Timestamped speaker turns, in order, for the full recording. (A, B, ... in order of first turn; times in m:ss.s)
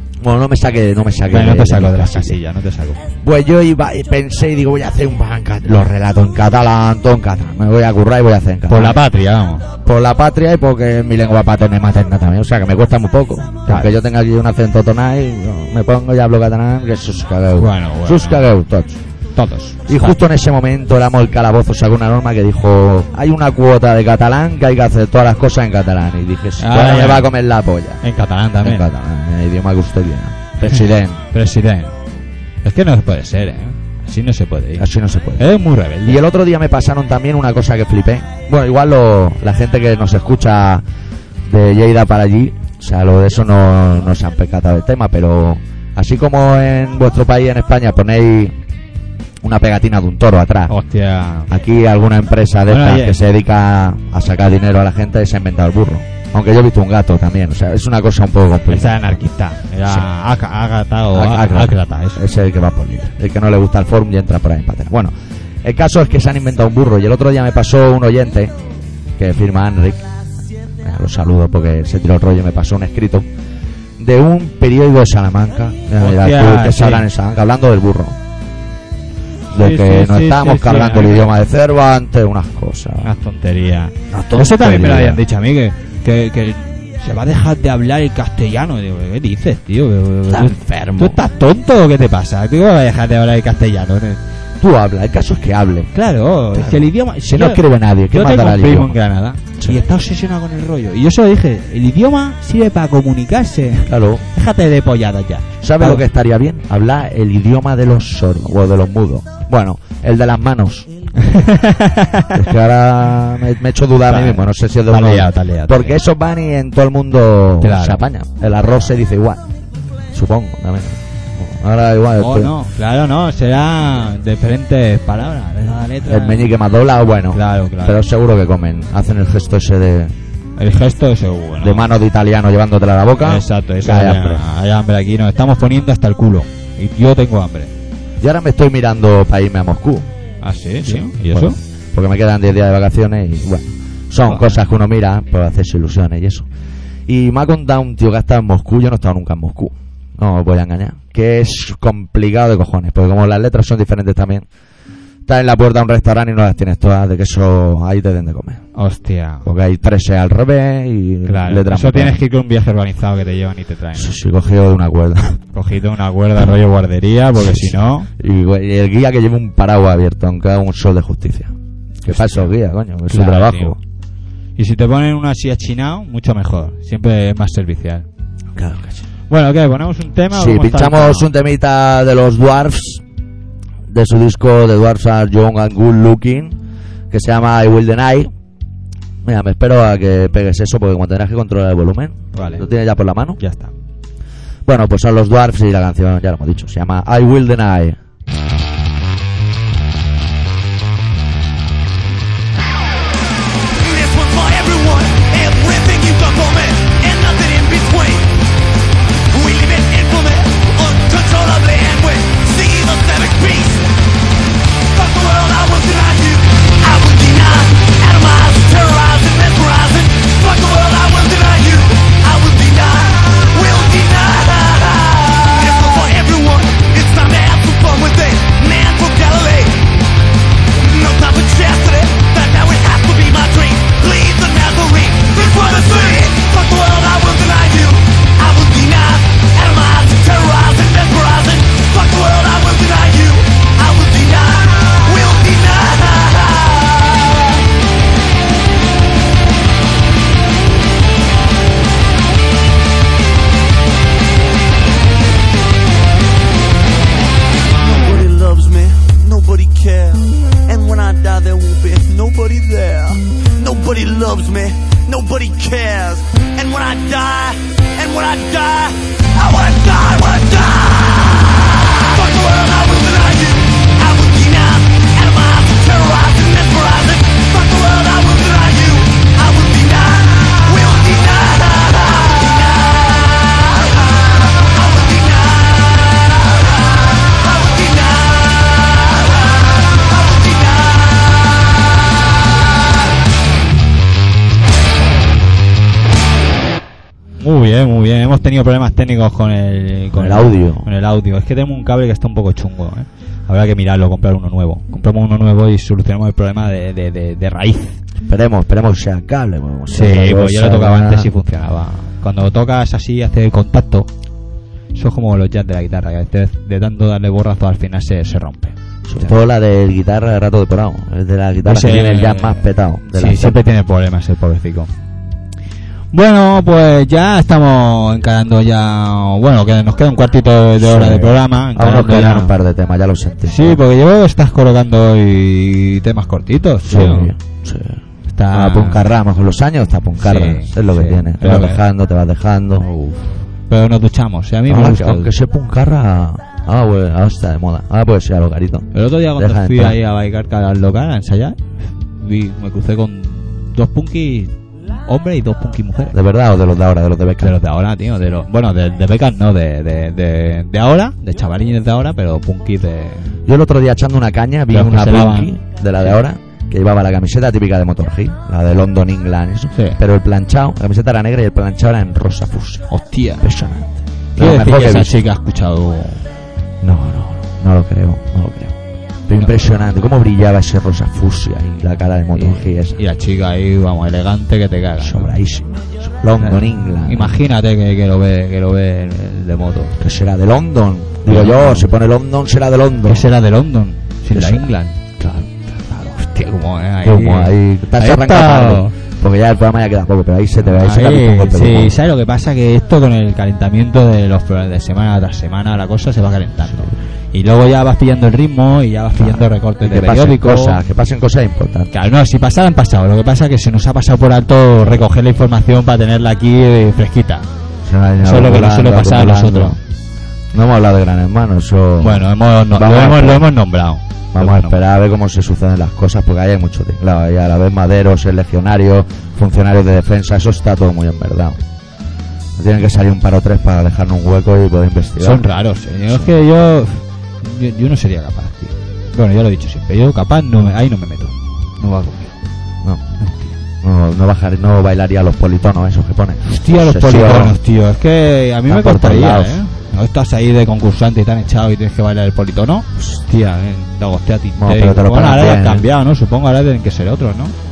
0:00.2-0:02.4 A
0:01.3-0:03.0 B
0:03.2-0:09.0 A
0:08.7-0:09.7 B
0:09.8-0:19.0 A
0:13.7-0:14.0 B
0:17.6-0:18.5 B
0:19.4-0:20.2 B
0:19.9-0:28.0 A
0:26.6-0:27.3 B
0:28.0-0:28.9 B
0:28.6-0:31.2 A
0:31.3-0:32.0 B
0:32.6-0:36.2 B
0:34.8-0:35.5 A
0:36.0-0:40.8 A
0:41.5-0:48.6 A
0:49.4-0:50.7 A
0:50.7-0:51.5 B
0:51.5-0:59.2 A
0:52.7-0:53.2 B
0:58.7-1:02.2 B
1:01.1-1:05.1 A
1:05.6-1:08.5 A
1:09.2-1:10.1 A
1:10.8-1:13.3 A
1:14.0-1:18.2 A
1:16.0-1:17.1 B
1:19.5-1:23.1 A
1:19.5-1:21.4 B
1:23.0-1:34.2 B
1:24.1-1:25.2 A
1:30.3-1:31.2 A
1:34.6-1:35.9 A
1:35.9-1:46.0 B
1:36.5-1:39.0 A
1:43.9-1:44.3 A
1:45.6-1:50.9 A
1:51.2-1:52.4 B
1:52.3-1:59.4 A
1:54.1-1:56.0 B
1:57.6-1:58.0 B
2:00.1-2:02.5 A
2:02.2-2:06.6 B
2:06.1-2:10.1 A
2:07.3-2:08.0 B
2:10.6-2:11.9 B
2:11.6-2:14.4 A
2:13.2-2:17.7 B
2:18.2-2:20.1 A
2:20.4-2:21.6 B
2:20.8-2:26.5 A
2:24.3-2:24.5 B
2:27.1-2:34.4 A
2:35.3-2:38.6 A
2:38.8-2:39.5 B
2:39.4-2:42.2 A
2:41.3-2:44.1 B
2:44.0-2:45.4 A
2:45.5-2:48.1 B
2:47.4-2:53.8 A
2:52.1-2:52.5 B
2:53.1-2:53.8 B
2:54.6-2:58.1 B
2:58.6-2:59.1 A
2:59.3-3:01.3 B
3:00.3-3:03.0 A
3:03.9-3:06.6 A
3:07.1-3:08.3 A
3:09.2-3:13.4 A
3:12.3-3:12.7 B
3:13.4-3:13.7 B
3:14.7-3:18.0 A
3:23.9-3:28.2 C
3:29.3-3:33.7 C
3:35.0-3:41.3 C
3:43.9-3:44.7 C
3:46.8-3:47.2 C
3:51.0-3:51.8 C
3:52.6-4:06.8 C
4:18.2-4:19.2 C
4:21.5-4:22.6 C
4:26.8-4:27.3 C
4:29.8-4:31.0 C
4:32.2-4:33.4 C
4:34.0-4:42.8 C
4:44.8-4:45.3 C
4:47.6-4:48.3 C
4:57.4-5:08.0 B
5:00.1-5:00.9 A
5:08.3-5:11.3 A
5:09.9-5:14.1 B
5:14.9-5:19.3 B
5:19.1-5:23.6 A
5:21.6-5:24.9 B
5:26.1-5:32.6 B
5:30.8-5:33.8 A
5:33.5-5:37.3 B
5:36.9-5:42.8 A
5:38.3-5:39.1 B
5:40.2-5:41.8 B
5:42.8-5:45.3 B
5:44.7-5:50.0 A
5:48.9-5:54.5 B
5:55.1-5:56.2 B
5:56.1-5:57.6 A
5:57.4-6:03.3 B
6:03.5-6:12.9 A
6:04.7-6:05.6 B
6:09.7-6:10.0 B
6:12.9-6:13.5 B
6:13.4-6:15.2 A
6:14.4-6:16.3 B
6:16.8-6:18.8 A
6:19.3-6:23.0 A
6:19.4-6:19.6 B
6:22.4-6:25.3 B
6:25.0-6:27.4 A
6:26.4-6:30.0 B
6:30.0-6:33.3 A
6:31.2-6:31.9 B
6:33.1-6:35.0 B
6:34.3-6:35.7 A
6:35.8-6:39.0 B
6:37.0-6:42.0 A
6:40.6-6:50.8 B
6:49.2-6:51.9 A
6:51.9-6:57.5 B
6:57.8-6:59.8 A
6:58.2-6:59.8 B
7:00.5-7:03.5 A
7:02.0-7:04.8 B
7:04.3-7:11.6 A
7:12.6-7:15.4 A
7:15.2-7:22.3 B
7:16.1-7:16.4 A
7:23.2-7:23.5 B
7:23.8-7:27.6 A
7:26.4-7:37.6 B
7:28.7-7:29.6 A
7:34.6-7:35.9 A